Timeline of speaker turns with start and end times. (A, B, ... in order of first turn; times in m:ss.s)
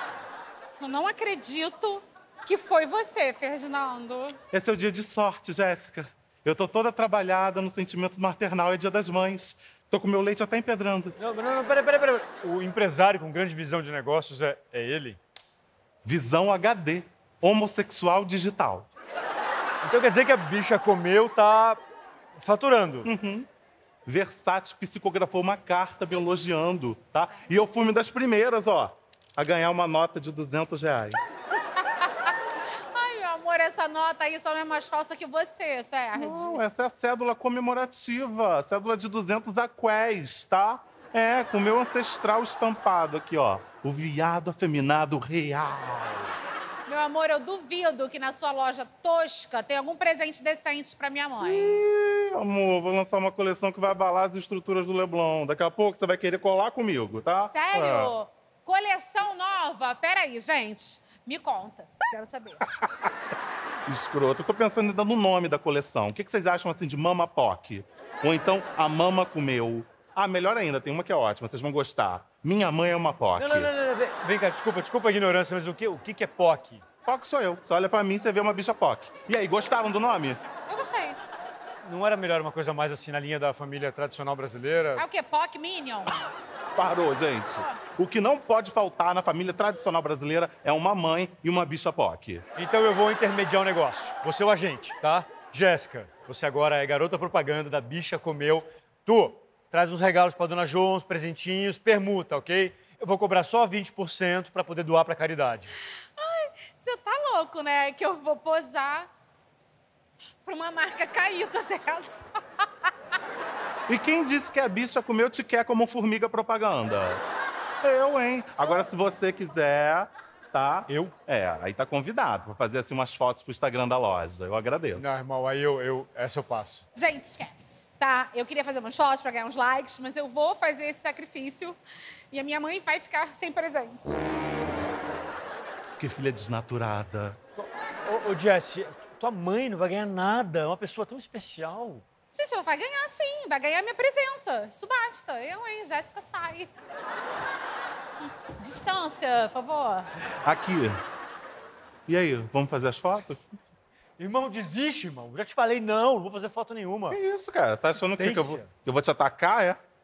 0:00.8-0:04.4 A
0:04.5-0:11.2 B
0:11.2-0:15.2 C
0:16.0-0:18.9 B
0:19.8-0:21.8 C
0:22.4-0:23.1 C
0:23.0-0:23.5 B
0:24.1-0:31.2 B
0:31.7-0:32.4 A
0:32.9-0:36.6 A
0:36.1-0:46.3 B
0:46.9-0:51.8 A
0:51.4-0:58.2 B
0:57.4-1:02.6 A
1:02.8-1:03.1 B
1:03.9-1:13.7 B
1:13.4-1:16.8 C
1:17.1-1:20.4 B
1:20.7-1:21.2 A
1:21.8-1:25.0 C
1:25.0-1:26.2 A
1:26.8-1:32.4 B
1:27.5-1:27.8 A
1:32.6-1:45.7 C
1:46.2-1:49.1 A
1:50.4-1:52.7 A
1:53.9-1:57.2 B
1:57.8-2:05.1 B
2:00.9-2:01.1 C
2:05.0-2:06.8 C
2:07.0-2:11.8 A
2:12.3-2:14.2 A
2:16.0-2:17.4 B
2:17.6-2:22.0 C
2:22.3-2:26.7 A
2:28.6-2:30.1 A
2:30.4-2:31.0 B
2:32.1-2:33.4 B
2:34.2-2:37.2 C
2:37.1-2:39.8 B
2:37.9-2:38.7 C